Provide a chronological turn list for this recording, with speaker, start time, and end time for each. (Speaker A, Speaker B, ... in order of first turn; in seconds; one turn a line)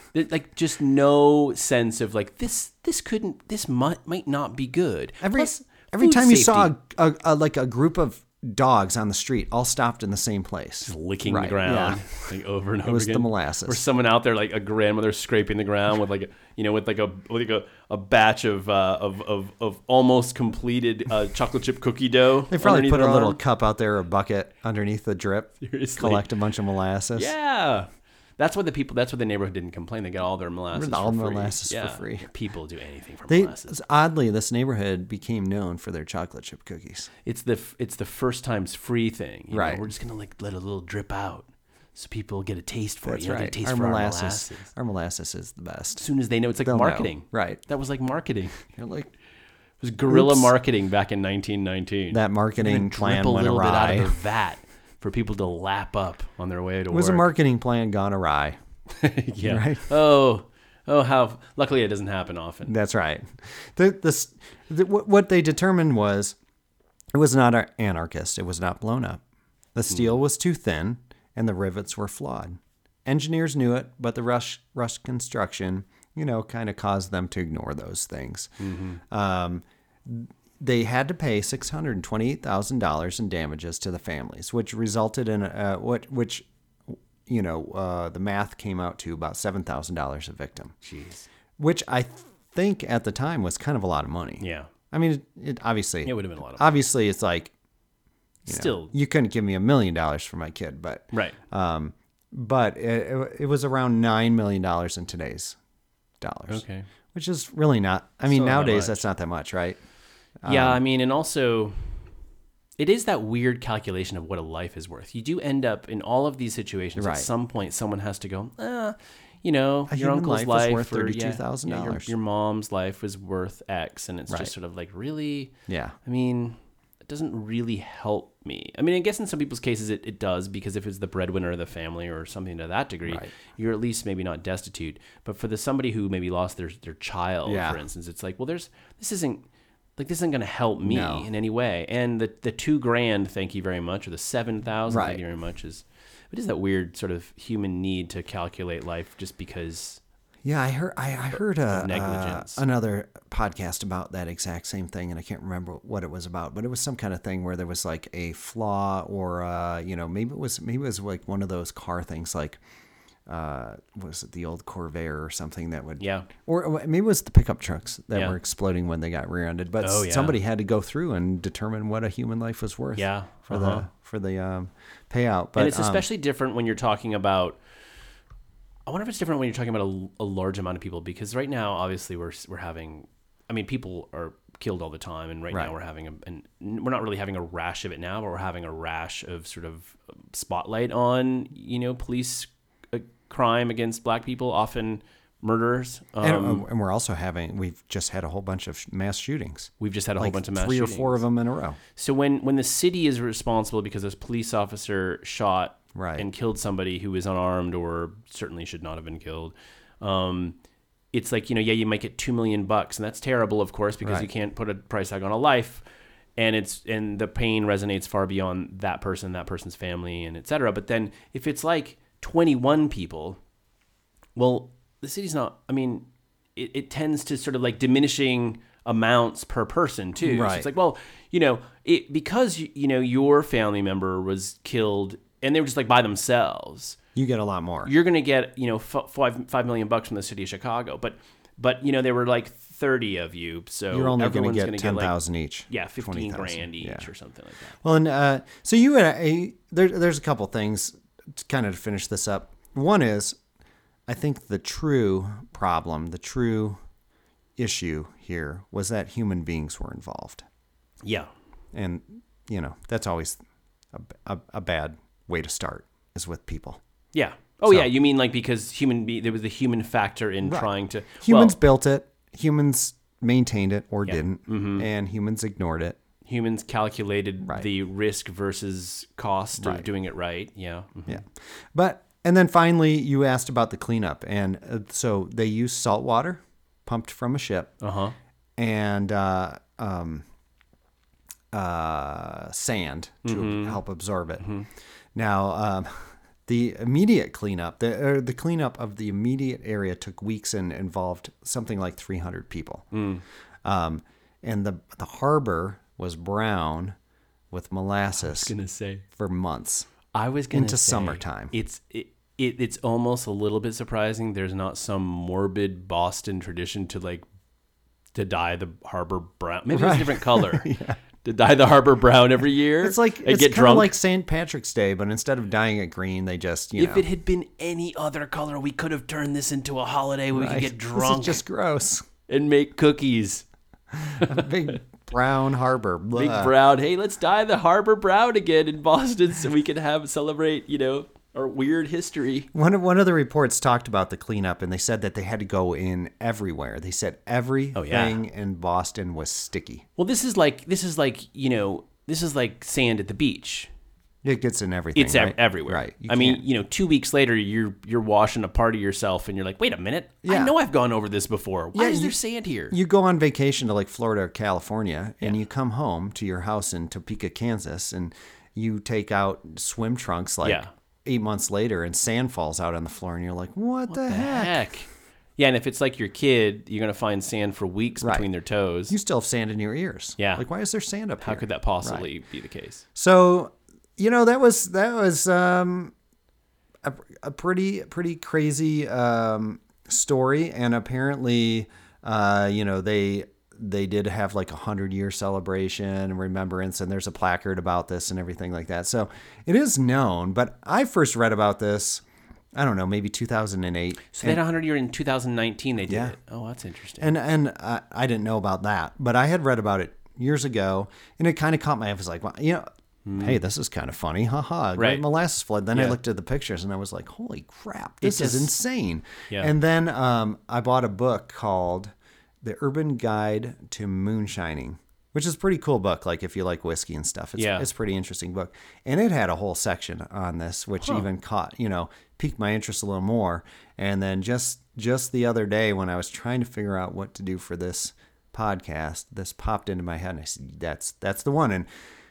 Speaker A: 0.1-6.7
Speaker B: 5.2-12.2
Speaker A: 10.8-23.4
Speaker B: 12.8-13.8
Speaker B: 22.5-27.3
Speaker A: 25.6-26.3
Speaker A: 27.1-33.8
Speaker B: 30.7-32.3
Speaker B: 33.3-37.1
Speaker A: 37.2-44.7
Speaker B: 39.5-39.8
Speaker B: 43.0-46.0
Speaker A: 46.0-48.6
Speaker B: 46.6-47.6
Speaker B: 48.7-49.1
Speaker A: 49.8-57.3
Speaker B: 50.1-50.5
Speaker B: 52.1-54.1
Speaker B: 56.9-58.6
Speaker A: 58.9-62.7
Speaker B: 59.4-59.8
Speaker B: 62.6-66.4
Speaker B: 67.1-69.2
Speaker B: 69.7-78.5
Speaker A: 78.6-79.0
Speaker B: 79.1-90.8
Speaker A: 90.8-91.3
Speaker B: 91.6-97.5
Speaker A: 94.4-94.7
Speaker A: 96.0-96.8
Speaker A: 98.5-98.9
Speaker B: 98.5-105.6
Speaker A: 101.1-101.4
Speaker B: 106.2-106.6
Speaker A: 106.5-106.8
Speaker B: 107.1-109.8
Speaker A: 108.2-109.0
Speaker B: 110.4-110.8
Speaker A: 110.4-111.8
Speaker A: 112.8-125.5
Speaker B: 117.0-117.3
Speaker B: 119.9-122.1
Speaker B: 125.7-125.9
Speaker A: 126.0-139.4
Speaker B: 133.1-133.3
Speaker B: 137.4-137.8
Speaker A: 140.0-150.0
Speaker B: 140.8-141.3
Speaker B: 144.9-145.2
Speaker B: 150.4-162.6
Speaker A: 151.7-152.6
Speaker B: 163.3-176.0
Speaker A: 166.0-166.3
Speaker A: 169.8-170.4
Speaker A: 172.9-173.9
Speaker A: 175.6-177.6
Speaker A: 178.9-196.7
Speaker B: 196.2-201.8
Speaker A: 199.8-201.2
Speaker A: 201.9-210.6
Speaker B: 205.9-206.3
Speaker A: 211.1-215.8
Speaker A: 216.4-223.4
Speaker A: 224.3-237.0
Speaker B: 230.2-230.7
Speaker B: 237.2-237.9
Speaker A: 237.8-245.1
Speaker B: 243.9-247.1
Speaker A: 245.7-247.8
Speaker B: 247.8-253.4
Speaker B: 254.1-256.8
Speaker B: 257.6-260.4
Speaker A: 261.0-261.3
Speaker B: 261.7-263.4
Speaker B: 263.9-266.8
Speaker A: 267.1-271.6
Speaker B: 270.4-276.0
Speaker A: 274.1-274.9
Speaker A: 276.2-281.2
Speaker B: 279.6-279.9
Speaker B: 281.1-287.8
Speaker A: 287.8-288.1
Speaker B: 288.6-290.2
Speaker B: 291.5-294.5
Speaker A: 293.2-293.8
Speaker A: 294.4-294.7
Speaker B: 295.1-302.9
Speaker A: 302.9-303.2
Speaker B: 303.6-306.9
Speaker B: 307.5-308.5
Speaker A: 308.2-309.0
Speaker B: 309.1-309.9
Speaker A: 310.1-317.2
Speaker B: 310.5-311.5
Speaker A: 318.1-320.7
Speaker B: 319.7-321.0
Speaker A: 321.2-323.9
Speaker B: 322.8-327.0
Speaker A: 326.8-331.4
Speaker B: 330.3-332.0
Speaker A: 332.3-333.4
Speaker B: 333.9-336.5
Speaker A: 334.2-334.5
Speaker A: 336.1-342.5
Speaker B: 342.5-349.9
Speaker A: 347.7-348.2
Speaker A: 350.0-353.7
Speaker B: 354.2-356.4
Speaker A: 354.9-362.8
Speaker B: 360.2-360.5
Speaker B: 361.7-362.1
Speaker B: 362.7-374.6
Speaker A: 370.4-370.7
Speaker A: 373.9-378.9
Speaker B: 378.0-378.3
Speaker B: 378.9-382.1
Speaker A: 380.2-380.4
Speaker A: 381.2-382.8
Speaker B: 382.9-385.9
Speaker B: 386.8-402.0
Speaker B: 402.6-404.4
Speaker A: 404.1-407.1
Speaker B: 405.9-406.1
Speaker B: 407.0-441.7
Speaker A: 413.0-413.4
Speaker A: 414.8-415.0
Speaker A: 418.0-418.5
Speaker A: 427.4-427.6
Speaker A: 430.8-431.1